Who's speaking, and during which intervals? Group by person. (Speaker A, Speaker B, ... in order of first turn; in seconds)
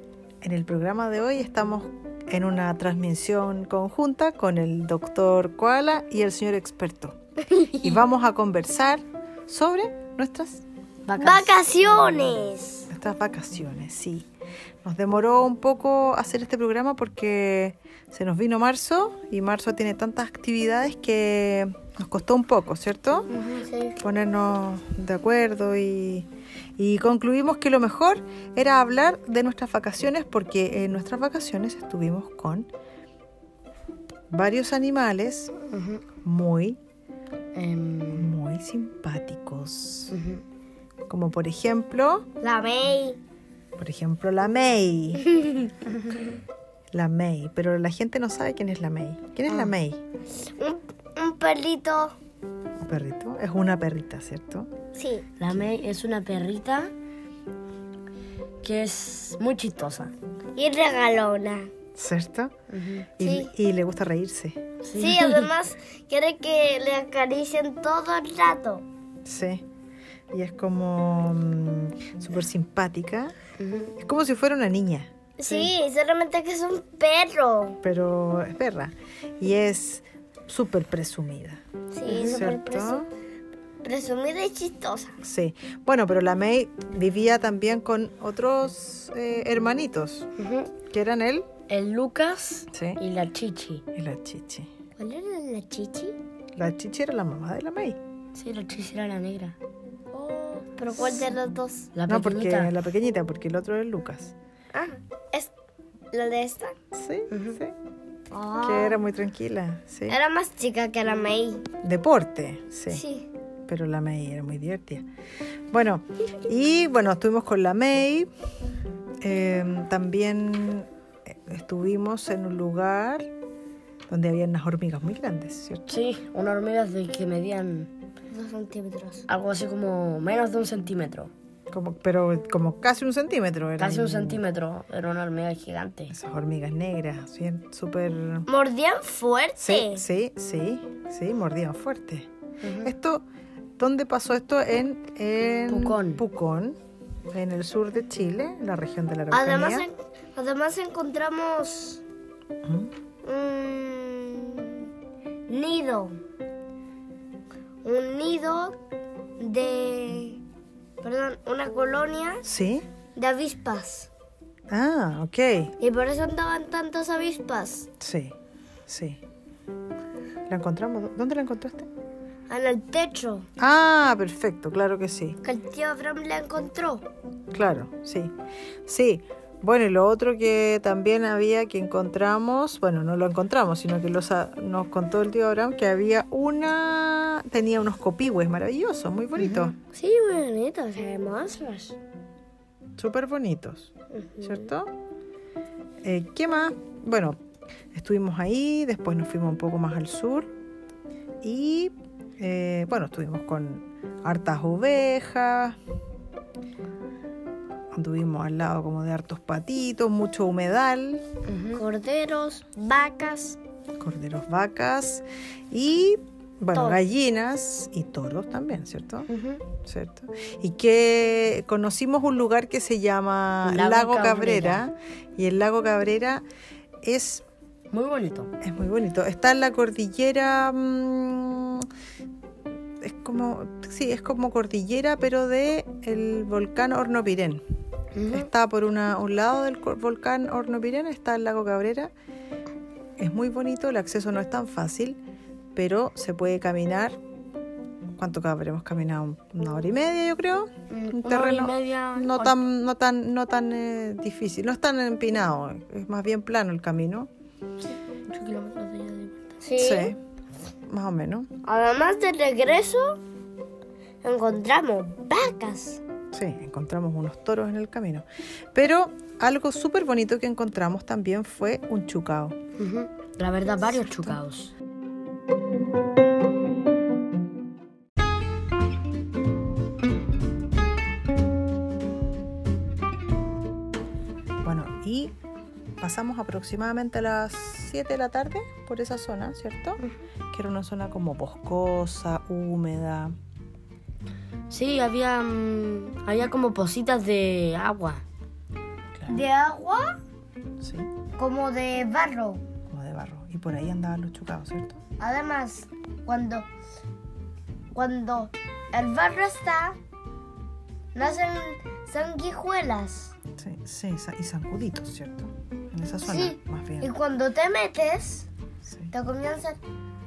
Speaker A: 0.4-7.2, 7.8-10.6, 12.9-14.3, 14.8-23.3, 24.0-32.7, 34.3-35.5, 36.2-36.8, 38.1-40.1, 41.1-42.3, 43.8-45.3, 46.9-50.0, 52.8-54.7, 62.0-62.5, 63.2-64.6, 69.2-69.6, 70.3-73.3, 74.0-75.1, 77.8-83.1, 85.2-90.3, 90.9-91.5, 92.7-93.0, 93.9-94.7, 96.5-98.0, 102.1-104.3, 106.9-107.8, 108.6-110.2, 111.8-113.0, 113.7-115.1, 115.7-118.3, 119.2-123.3, 124.1-125.9, 131.7-134.4, 136.1-138.5, 139.6-142.3, 142.8-143.2, 143.8-146.8, 147.3-149.8, 152.6-152.9, 162.4-162.9, 164.7-165.7, 168.0-168.3, 168.9-169.2, 170.5-171.9, 173.6-175.4, 177.5-178.3, 178.8-189.7, 193.0-194.9, 196.0-197.4, 197.9-200.5, 201.4-205.8, 207.9-211.2, 214.0-219.3, 219.8-226.4, 227.0-227.4, 228.6-231.9, 233.0-237.6, 238.3-242.1, 243.2-245.2, 245.7-247.2, 248.2-257.3, 259.8-260.2, 260.9-261.5, 266.3-272.6, 273.7-274.4, 284.6-285.3, 286.0-293.4, 299.1-299.4, 300.8-301.1, 302.9-305.0, 313.6-317.1, 318.8-319.1
Speaker B: 11.1-11.5, 35.7-36.0, 37.5-38.3, 40.1-40.4, 55.4-56.9, 58.6-60.1, 62.7-63.1, 64.8-65.5, 73.6-73.9, 82.1-82.5, 90.4-90.7, 91.7-93.8, 98.3-99.5, 101.0-101.3, 101.9-102.7, 107.3-107.6, 125.9-127.9, 129.3-131.3, 133.8-136.1, 142.6-142.9, 145.7-146.2, 189.4-189.7, 211.5-211.8, 219.3-219.6, 223.6-224.8, 227.9-228.5, 238.1-238.5, 250.9-252.6, 258.3-259.6, 272.8-274.7, 294.7-298.2
Speaker C: 11.2-12.9, 23.3-24.0, 42.4-43.2, 50.3-52.1, 54.9-55.3, 60.5-61.7, 63.2-63.5, 65.0-68.8, 75.4-77.8, 81.9-83.1, 83.8-85.2, 95.0-96.2, 100.1-101.9, 104.7-105.5, 106.1-106.8, 108.3-109.0, 110.1-111.7, 112.9-113.3, 128.3-129.2, 138.5-140.0, 149.3-152.0, 153.2-154.9, 155.5-156.2, 157.8-158.8, 159.4-160.4, 161.0-162.4, 163.2-164.1, 165.8-167.9, 172.5-173.5, 175.4-177.1, 189.8-192.0, 194.1-194.7, 211.8-213.6, 216.7-217.0, 259.6-260.1, 261.6-263.2, 264.2-266.0, 299.3-300.2, 301.4-302.6, 305.2-306.7, 307.9-310.0, 311.1-313.3, 316.2-318.5, 319.1-319.8